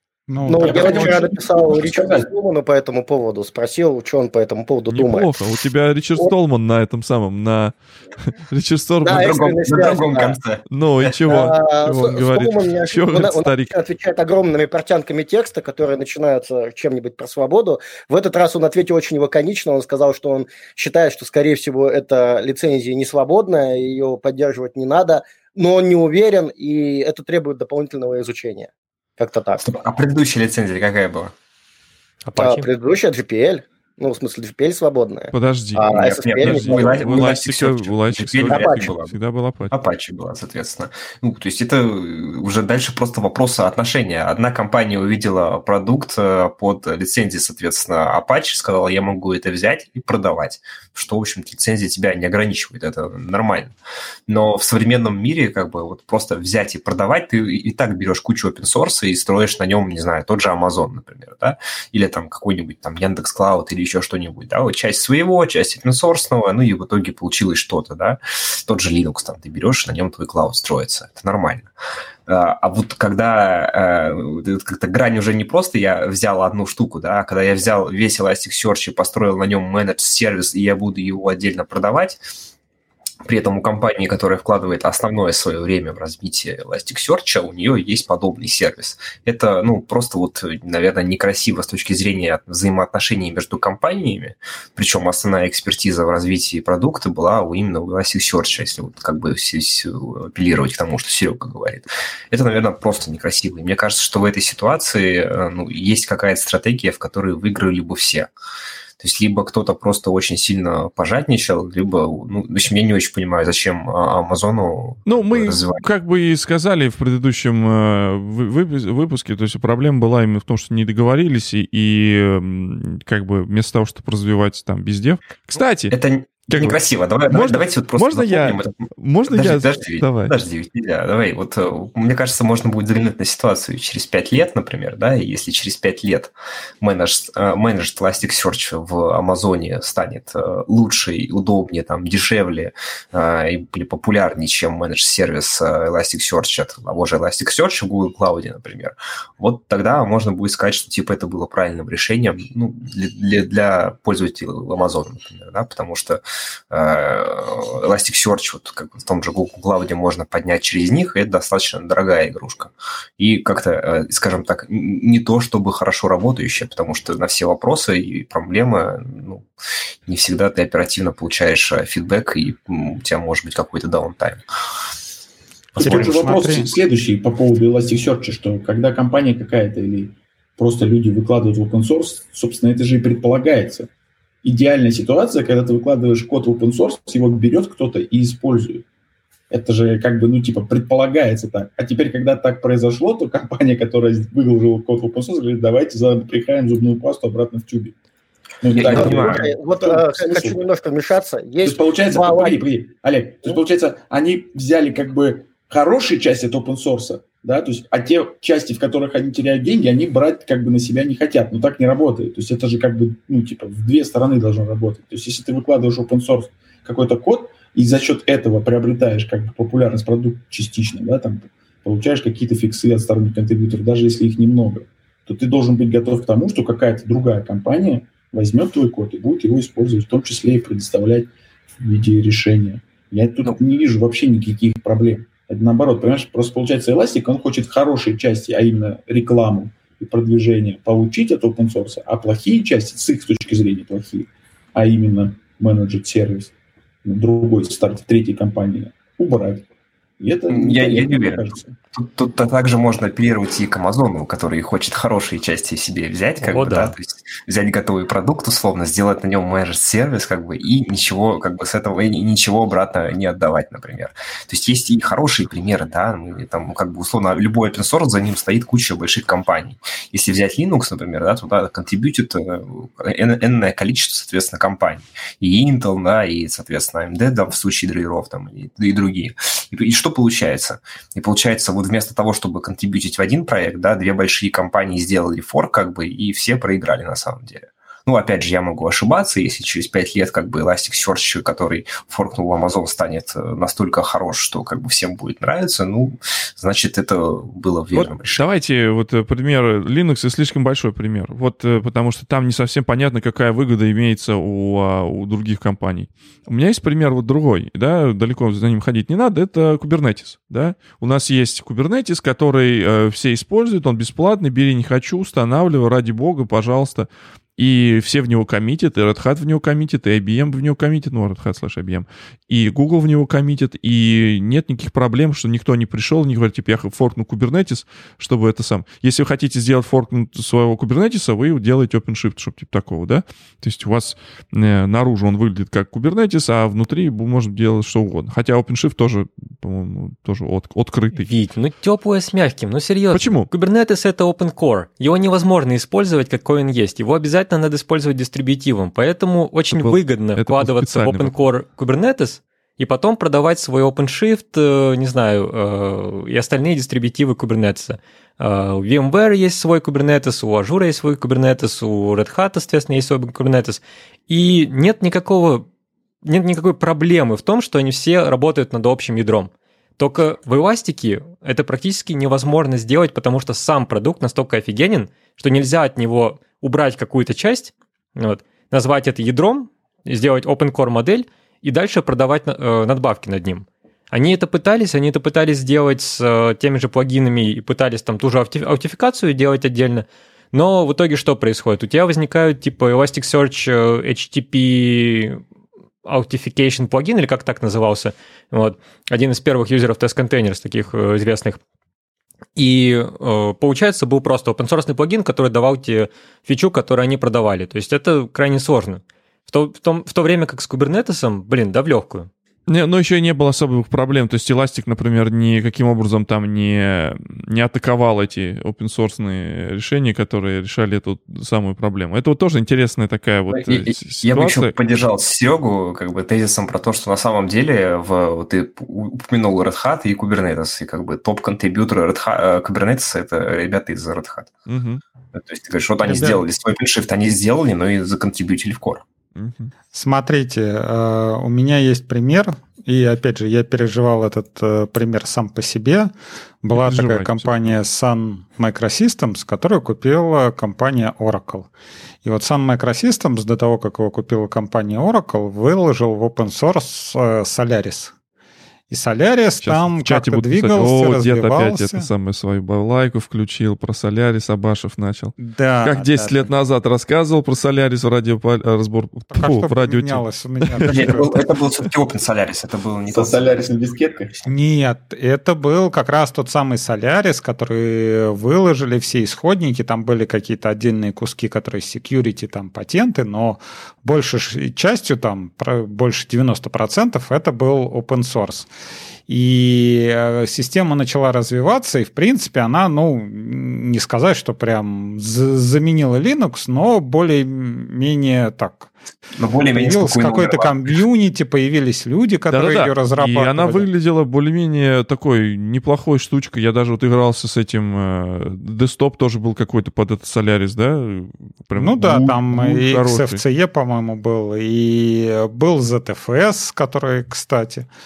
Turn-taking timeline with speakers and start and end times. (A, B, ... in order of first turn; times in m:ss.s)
0:00.3-0:01.2 A
0:00.4-0:05.3 B
0:00.5-0:02.3 C
0:04.9-0:09.4 D
0:09.0-0:10.4 B
0:09.1-0:10.6 E
0:10.7-0:13.7 D
0:11.3-0:29.8 B
0:29.6-0:31.3 E
0:32.2-0:32.7 F
0:32.4-0:37.4 B
0:35.3-0:39.7 D
0:35.9-0:39.1 E
0:38.5-0:38.9 B
0:39.7-0:53.8 E
0:54.3-1:11.7 E
1:12.3-1:22.2 E
1:23.2-1:48.3 E
1:49.0-1:55.8 E
1:55.1-2:05.9 D
2:05.9-2:49.4 E
2:06.5-2:10.3 D
2:50.1-2:54.4 E
2:55.8-2:56.7 A
2:55.8-3:03.9 C
3:04.4-3:08.8 C
3:09.5-3:17.9 C
3:18.6-3:20.6 C
3:18.7-3:19.5 E
3:18.9-3:22.6 B
3:21.6-4:06.5 C
4:07.0-4:09.6 C
4:10.2-4:11.8 C
4:10.5-4:58.4 E
4:16.4-4:17.0 F
4:57.9-5:41.3 D
5:41.1-6:05.7 F
5:43.1-5:43.5 D
5:49.7-5:51.4 D
6:06.2-6:35.4 F
6:36.0-6:41.6 F
6:42.6-6:52.3 F
6:52.7-7:04.7 D
7:03.5-7:14.6 E
7:14.7-7:15.0 D
7:15.3-7:19.0 E
7:16.0-7:16.4 A
7:19.4-7:19.7 D
7:19.9-7:31.7 A
7:26.7-7:27.8 D
7:32.2-7:38.1 A
7:38.9-7:42.1 A
7:39.6-7:51.2 D
7:45.4-7:46.5 A
7:49.3-7:51.4 A
7:50.9-7:53.7 E
7:53.1-7:54.4 C
7:54.4-8:08.7 A
8:09.3-8:18.9 A
8:19.4-8:21.0 E
8:19.7-8:23.9 A
8:22.5-8:33.4 D
8:31.7-8:37.9 A